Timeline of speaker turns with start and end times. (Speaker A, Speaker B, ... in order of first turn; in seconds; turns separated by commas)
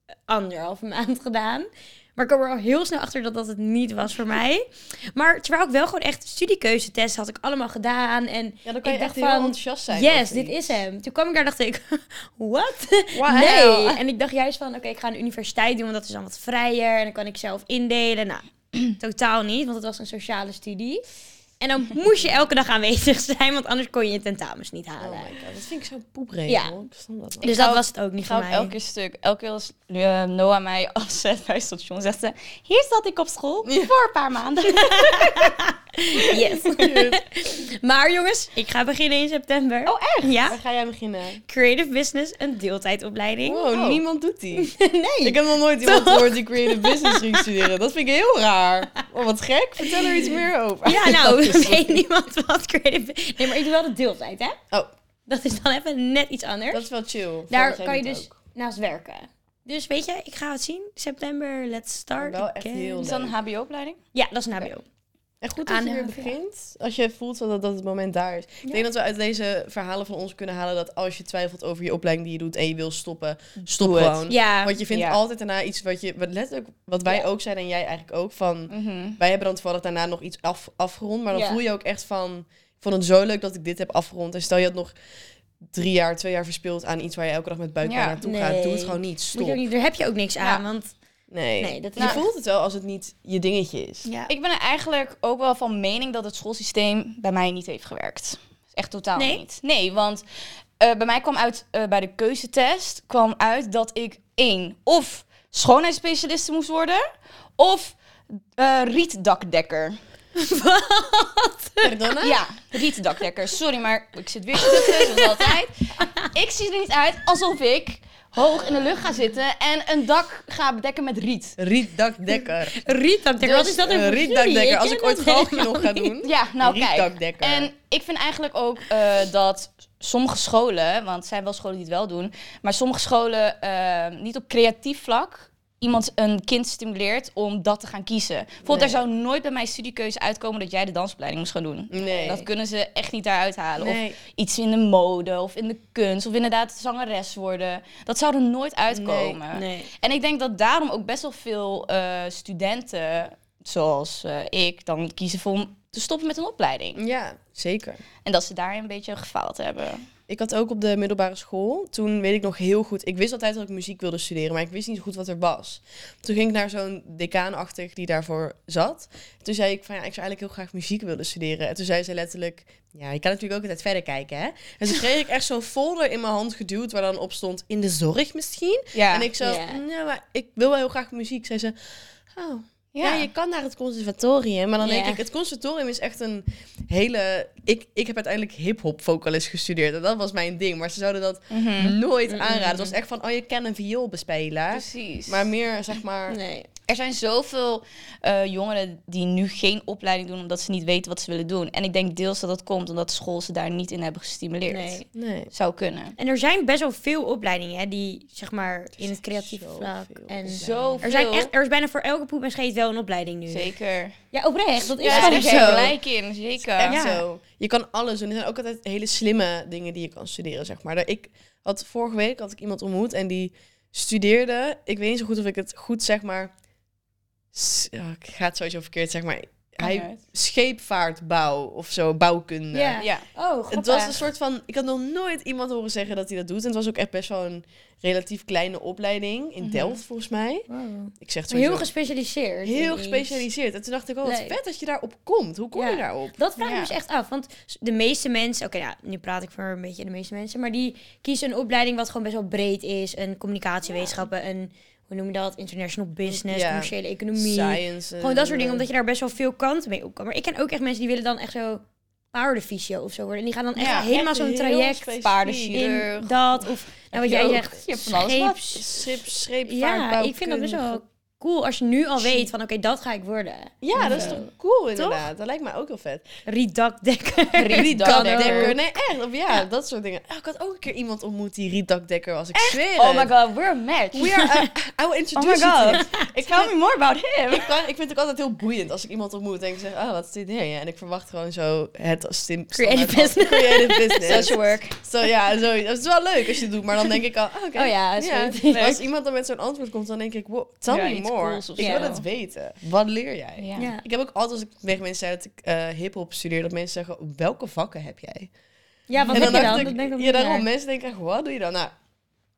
Speaker A: 0.3-21.1, Speaker B: 8.6-10.8, Speaker B: 13.1-14.0, Speaker A: 21.6-25.4, Speaker B: 25.0-27.6, Speaker A: 26.5-26.8, Speaker A: 27.4-28.8, Speaker C: 27.5-35.5, Speaker B: 33.6-33.9, Speaker A: 34.9-40.6, Speaker C: 36.3-36.8, Speaker B: 36.7-37.2, Speaker C: 39.9-40.4, Speaker B: 40.5-41.4, Speaker A: 41.5-44.0, Speaker B: 43.4-52.0, Speaker A: 44.5-47.7, Speaker A: 49.8-54.6, Speaker A: 55.3-56.9, Speaker B: 56.7-58.4, Speaker A: 57.5-63.0, Speaker B: 62.2-63.4, Speaker C: 63.0-64.0, Speaker A: 64.1-64.8, Speaker B: 65.4-84.9, Speaker A: 65.6-66.4, Speaker C: 73.7-74.2, Speaker A: 74.3-74.8, Speaker C: 74.9-75.2, Speaker C: 78.7-79.2, Speaker A: 81.3-81.6, Speaker B: 85.7-89.6, Speaker C: 87.8-88.2, Speaker A: 88.2-90.9, Speaker B: 91.3-94.1, Speaker A: 91.6-92.2, Speaker C: 92.0-92.2, Speaker A: 94.0-94.3, Speaker C: 94.3-100.2, Speaker A: 99.1-99.4, Speaker C: 100.8-107.0, Speaker C: 107.6-108.0, Speaker C: 108.6-110.0, Speaker A: 110.3-112.1, Speaker B: 111.8-112.5, Speaker C: 112.2-121.6, Speaker A: 114.6-116.3, Speaker B: 121.6-122.9, Speaker A: 122.3-126.1, Speaker B: 123.5-127.7, Speaker C: 126.2-157.0, Speaker B: 138.6-139.0, Speaker B: 141.9-142.4, Speaker B: 143.8-144.2, Speaker B: 148.9-149.4, Speaker A: 149.5-149.9, Speaker B: 157.0-158.0, Speaker C: 158.2-160.1, Speaker B: 160.3-181.8, Speaker C: 178.9-179.3, Speaker A: 179.4-179.8, Speaker B: 182.3-196.4, Speaker C: 182.9-183.3, Speaker A: 184.8-185.2, Speaker C: 191.5-192.0, Speaker A: 192.3-193.0, Speaker C: 194.7-195.5, Speaker A: 196.3-196.7, Speaker C: 196.9-206.2, Speaker A: 204.7-205.1, Speaker B: 205.1-205.5, Speaker A: 206.2-213.7, Speaker B: 209.1-211.1, Speaker C: 210.5-211.5, Speaker C: 213.5-214.2, Speaker A: 214.3-215.9, Speaker B: 215.0-216.0, Speaker C: 215.0-217.0, Speaker B: 216.6-226.5, Speaker A: 216.9-217.2, Speaker B: 227.5-233.0, Speaker C: 229.8-230.2, Speaker A: 232.7-234.2, Speaker C: 233.0-233.2, Speaker B: 233.7-240.7, Speaker C: 239.6-240.0, Speaker A: 240.7-243.5, Speaker B: 241.2-241.9, Speaker B: 242.6-246.4, Speaker A: 244.2-244.6, Speaker A: 245.8-265.1, Speaker C: 246.6-246.9, Speaker B: 256.3-258.9, Speaker C: 263.8-264.1, Speaker B: 263.9-265.8, Speaker C: 265.2-266.4, Speaker A: 265.7-269.1, Speaker C: 267.1-268.6, Speaker B: 268.7-271.0, Speaker A: 269.6-275.3, Speaker B: 272.2-272.5, Speaker B: 273.8-276.3, Speaker C: 274.0-274.4, Speaker A: 276.5-278.8, Speaker C: 277.6-278.8, Speaker B: 277.7-283.3, Speaker C: 282.5-284.5, Speaker B: 284.1-286.7, Speaker C: 285.4-287.8, Speaker A: 285.9-286.2, Speaker B: 287.5-308.5, Speaker A: 292.7-294.6, Speaker C: 294.2-295.0, Speaker A: 297.8-299.0, Speaker C: 300.9-302.2, Speaker A: 301.8-302.1, Speaker C: 303.6-303.9, Speaker A: 303.8-304.0, Speaker A: 309.1-310.6, Speaker C: 309.2-309.9, Speaker B: 309.3-311.9